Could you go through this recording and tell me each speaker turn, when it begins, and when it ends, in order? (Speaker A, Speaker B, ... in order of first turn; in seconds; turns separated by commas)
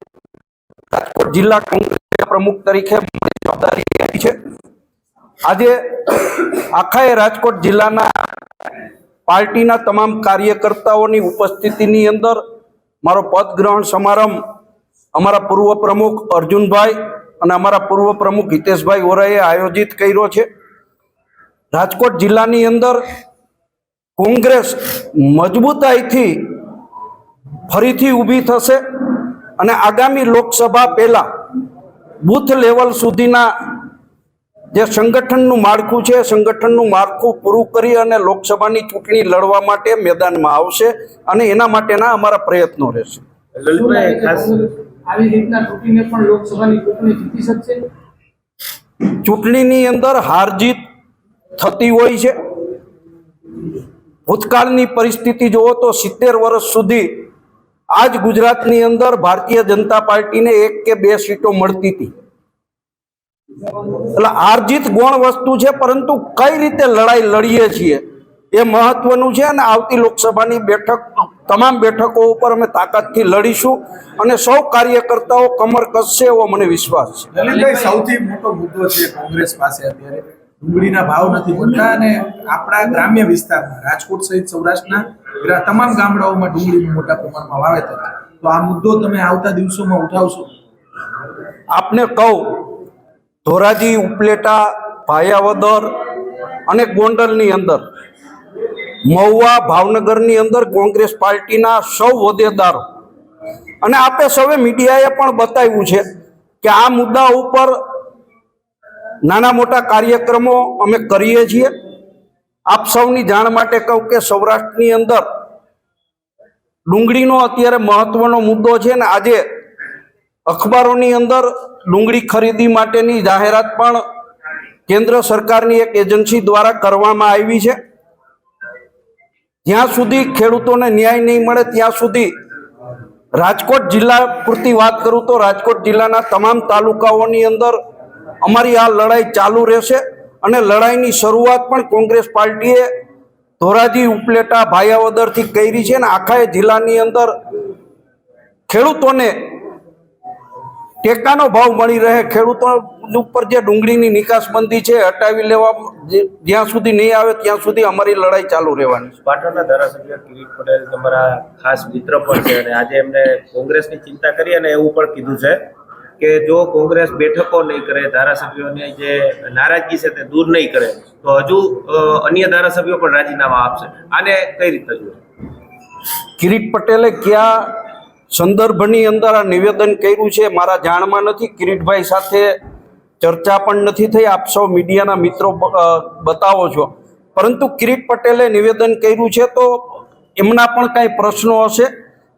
Speaker A: 0.9-4.4, Speaker A: 5.5-8.1, Speaker A: 9.3-12.4, Speaker A: 13.0-14.4, Speaker A: 15.2-20.5, Speaker A: 21.7-23.0, Speaker A: 24.2-26.6, Speaker A: 27.7-31.2, Speaker A: 32.2-33.5, Speaker A: 34.7-43.2, Speaker B: 43.5-44.6, Speaker C: 43.7-47.9, Speaker A: 49.2-50.8, Speaker A: 51.6-52.3, Speaker A: 54.3-57.2, Speaker A: 57.9-62.1, Speaker A: 64.1-77.3, Speaker D: 77.3-90.5, Speaker A: 91.7-92.8, Speaker A: 93.4-95.9, Speaker A: 96.7-97.8, Speaker A: 99.0-102.8, Speaker A: 103.8-106.0, Speaker A: 106.6-107.8, Speaker A: 109.2-111.7, Speaker A: 112.7-115.2, Speaker A: 116.9-119.4, Speaker A: 120.5-124.0, Speaker A: 124.9-127.8, Speaker A: 129.6-132.3, Speaker A: 133.3-137.8, Speaker A: 138.4-142.9, Speaker A: 143.6-147.3, Speaker A: 148.7-149.5, Speaker A: 151.0-159.1, Speaker B: 159.2-175.2, Speaker A: 176.4-177.7, Speaker A: 178.3-182.5, Speaker A: 183.2-189.7, Speaker A: 190.4-191.9